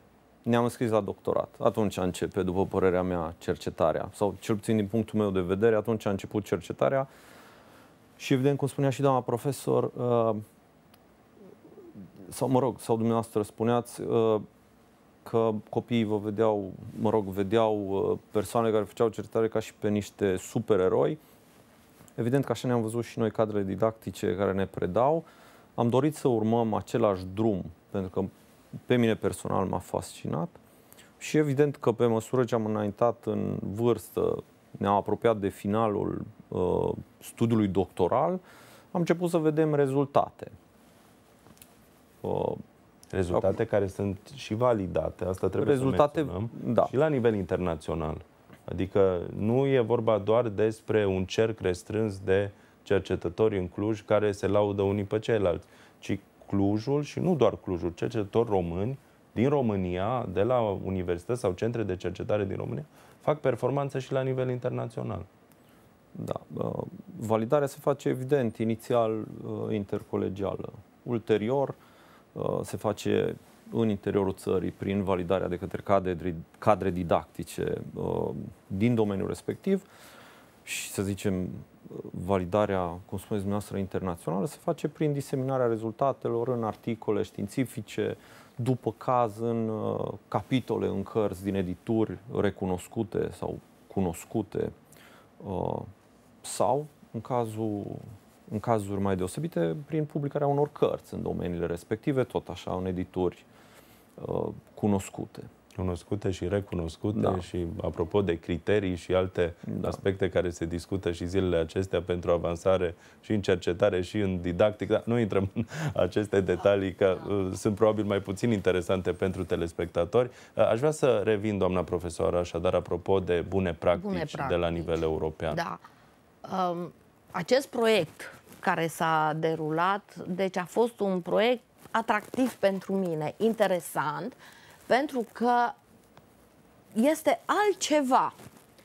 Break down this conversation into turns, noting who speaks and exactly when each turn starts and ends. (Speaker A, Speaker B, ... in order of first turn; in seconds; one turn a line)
Speaker A: 0.5-7.1
Speaker A: 8.2-10.4
Speaker A: 12.3-14.5
Speaker A: 15.2-21.2
Speaker A: 22.2-25.2
Speaker A: 25.8-30.6
Speaker A: 31.2-38.4
Speaker A: 38.9-40.5
Speaker A: 42.2-42.6
Speaker B: 43.1-65.3
Speaker A: 45.6-46.9
Speaker A: 66.2-71.8
Speaker A: 72.3-79.8
Speaker A: 80.7-94.8
Speaker A: 95.4-95.9
Speaker A: 96.4-103.5
Speaker A: 104.2-105.5
Speaker B: 105.8-125.6
Speaker A: 107.1-107.4
Speaker A: 109.7-110.0
Speaker C: 124.0-125.8
Speaker C: 126.4-135.8
Speaker C: 136.9-138.3